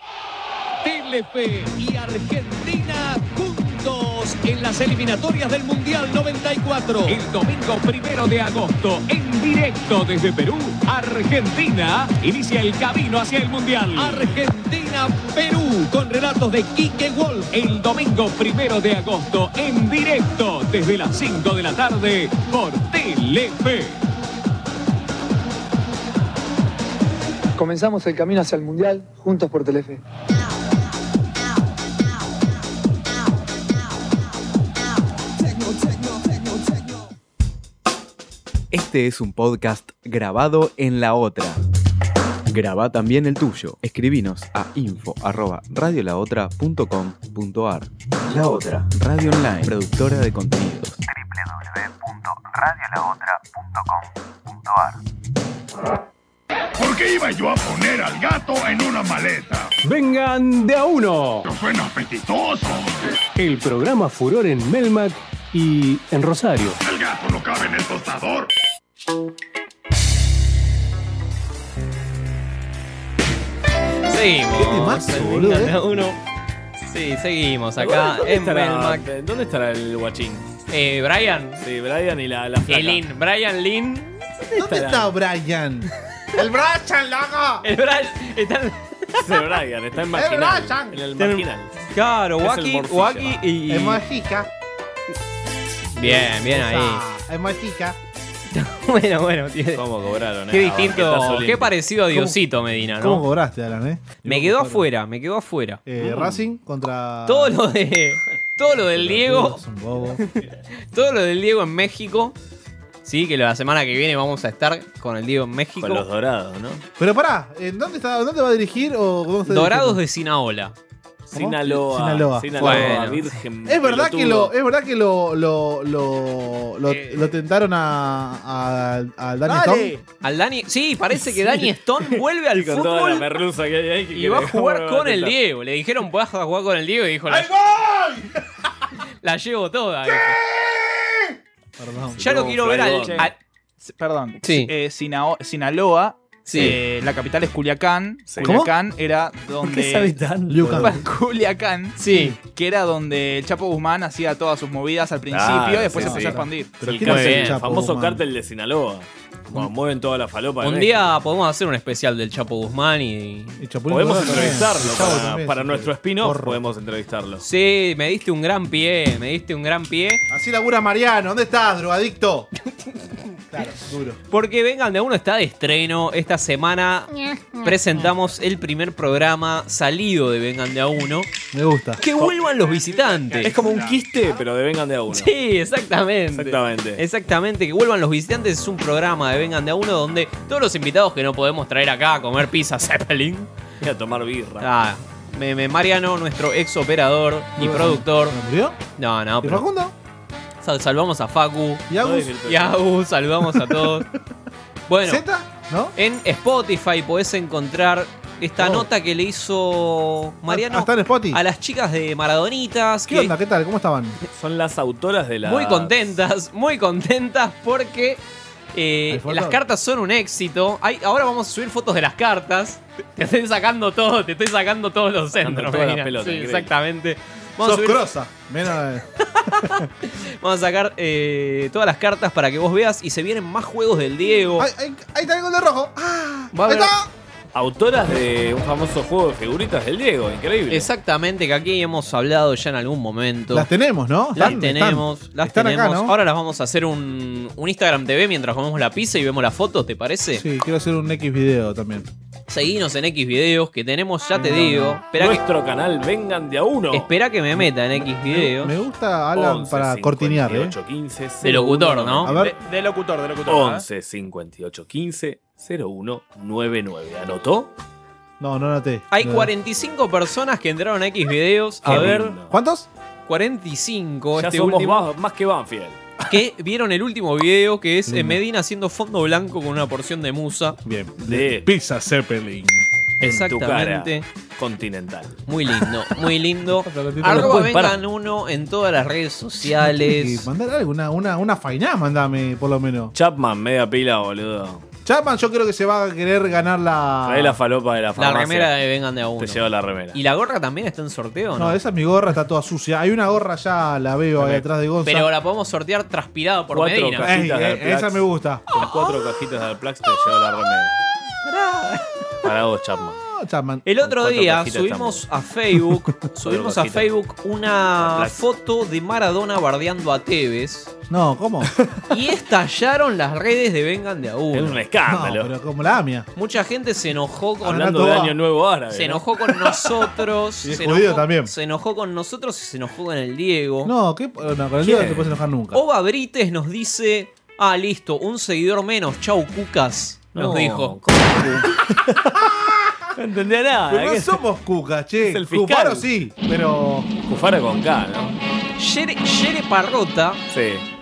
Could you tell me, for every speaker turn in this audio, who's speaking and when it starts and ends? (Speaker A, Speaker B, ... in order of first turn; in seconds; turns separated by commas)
Speaker A: 0.8-24.0, Speaker B: 27.6-30.0, Speaker C: 38.7-41.6, Speaker C: 42.5-47.9, Speaker C: 48.8-51.0, Speaker D: 56.8-59.7, Speaker E: 59.9-61.4, Speaker D: 61.5-62.9, Speaker E: 63.4-66.7, Speaker D: 66.8-68.5, Speaker F: 74.1-76.2, Speaker G: 74.6-75.8, Speaker F: 76.8-79.0, Speaker H: 77.8-80.5, Speaker F: 80.7-81.6, Speaker H: 81.6-83.0, Speaker F: 82.7-84.5, Speaker G: 84.6-87.6, Speaker H: 84.6-85.1, Speaker F: 87.6-89.2, Speaker H: 89.2-91.8, Speaker G: 90.1-91.0, Speaker F: 91.2-94.0, Speaker H: 92.4-93.4, Speaker G: 93.7-94.5, Speaker G: 95.9-98.0, Speaker F: 96.0-97.0, Speaker F: 98.5-99.8, Speaker H: 99.8-101.8, Speaker F: 100.5-103.3, Speaker G: 102.1-102.4, Speaker G: 103.0-104.9, Speaker F: 104.2-105.8, Speaker G: 105.9-107.6, Speaker H: 106.0-106.4, Speaker F: 107.3-109.6, Speaker G: 108.9-110.2, Speaker F: 110.9-112.4, Speaker F: 113.0-116.0, Speaker H: 115.8-116.8, Speaker G: 117.0-120.0, Speaker F: 119.5-120.8, Speaker H: 121.3-124.5, Speaker G: 121.3-123.1, Speaker F: 122.6-123.2, Speaker G: 123.7-129.9, Speaker I: 129.5-130.0, Speaker F: 130.2-133.2, Speaker H: 131.2-135.3, Speaker F: 134.1-137.5, Speaker G: 137.3-138.3, Speaker F: 139.2-140.4, Speaker G: 141.8-142.4, Speaker F: 142.2-143.3, Speaker H: 142.2-143.3, Speaker I: 143.2-150.2, Speaker F: 144.4-144.7, Speaker F: 146.5-146.8, Speaker H: 148.3-148.6, Speaker G: 148.4-148.7, Speaker H: 149.6-151.0, Speaker G: 150.5-151.0, Speaker I: 150.8-156.8, Speaker F: 152.0-152.4, Speaker H: 155.3-161.1, Speaker G: 155.9-158.2, Speaker F: 157.0-157.6, Speaker F: 160.6-163.6, Speaker G: 163.6-166.6, Speaker H: 163.9-167.4, Speaker F: 167.4-170.2, Speaker G: 170.3-172.5, Speaker G: 173.5-174.2, Speaker F: 174.3-181.3, Speaker G: 181.5-182.0, Speaker F: 182.0-183.6, Speaker H: 183.4-185.3, Speaker I: 183.5-183.9, Speaker F: 185.1-193.5, Speaker H: 186.3-187.0, Speaker H: 193.8-194.7, Speaker F: 194.6-198.4, Speaker G: 197.6-198.8, Speaker F: 199.0-199.6, Speaker G: 199.4-199.9, Speaker F: 200.6-201.9, Speaker G: 201.9-202.3, Speaker H: 202.0-202.8, Speaker F: 202.5-204.1, Speaker G: 203.6-204.0, Speaker F: 204.9-205.2, Speaker G: 205.0-205.9, Speaker F: 206.0-213.3, Speaker G: 208.6-208.9, Speaker G: 210.5-211.4, Speaker G: 213.1-214.2, Speaker H: 214.3-216.1, Speaker F: 215.4-218.2, Speaker F: 218.7-228.1, Speaker G: 219.1-219.6, Speaker H: 225.4-226.7, Speaker G: 227.6-229.7, Speaker F: 229.4-234.7, Speaker G: 234.6-237.1, Speaker F: 236.5-236.9, Speaker H: 237.5-240.9, Speaker F: 240.7-243.7, Speaker G: 243.5-246.2, Speaker F: 244.3-250.4, Speaker G: 250.3-252.1, Speaker F: 252.5-255.4, Speaker G: 254.3-255.0, Speaker H: 255.1-257.1, Speaker F: 256.9-258.7, Speaker G: 258.0-260.8, Speaker H: 259.3-262.4, Speaker F: 261.4-262.3, Speaker G: 262.2-262.6, Speaker I: 262.3-263.9, Speaker H: 263.4-267.7, Speaker G: 268.4-269.5, Speaker F: 269.1-272.3, Speaker H: 271.9-272.5, Speaker G: 271.9-272.9, Speaker F: 273.3-275.1, Speaker H: 274.4-276.0, Speaker F: 276.3-280.8, Speaker G: 278.1-278.4, Speaker G: 280.9-282.9, Speaker H: 281.3-281.7, Speaker H: 283.2-285.4, Speaker F: 283.2-284.2, Speaker F: 285.5-290.5, Speaker G: 286.7-287.7, Speaker H: 287.2-288.0, Speaker G: 289.6-293.1, Speaker H: 293.1-294.9, Speaker G: 295.1-297.6, Speaker H: 297.2-298.7, Speaker F: 298.2-301.8, Speaker H: 299.4-300.2, Speaker G: 301.6-305.3, Speaker H: 304.4-304.6, Speaker F: 305.0-307.3, Speaker H: 306.7-311.0, Speaker G: 307.2-308.7, Speaker F: 308.8-309.1, Speaker F: 311.5-312.1, Speaker H: 312.4-313.2, Speaker G: 313.2-313.8, Speaker F: 313.9-320.9, Speaker H: 314.0-315.2, Speaker H: 316.4-317.1, Speaker H: 318.0-318.4, Speaker G: 321.1-321.8, Speaker F: 322.1-324.8, Speaker H: 324.5-325.5, Speaker G: 325.1-326.3, Speaker F: 326.4-327.9, Speaker G: 327.6-328.4, Speaker H: 327.7-329.2, Speaker F: 328.9-333.9, Speaker G: 330.6-331.5, Speaker G: 333.8-335.8, Speaker H: 334.8-335.3, Speaker F: 335.7-341.0, Speaker H: 340.4-341.7, Speaker G: 342.1-343.1, Speaker H: 343.2-344.4, Speaker G: 343.9-347.1, Speaker H: 345.2-346.1, Speaker H: 347.2-348.4, Speaker F: 348.8-350.4, Speaker H: 350.5-350.9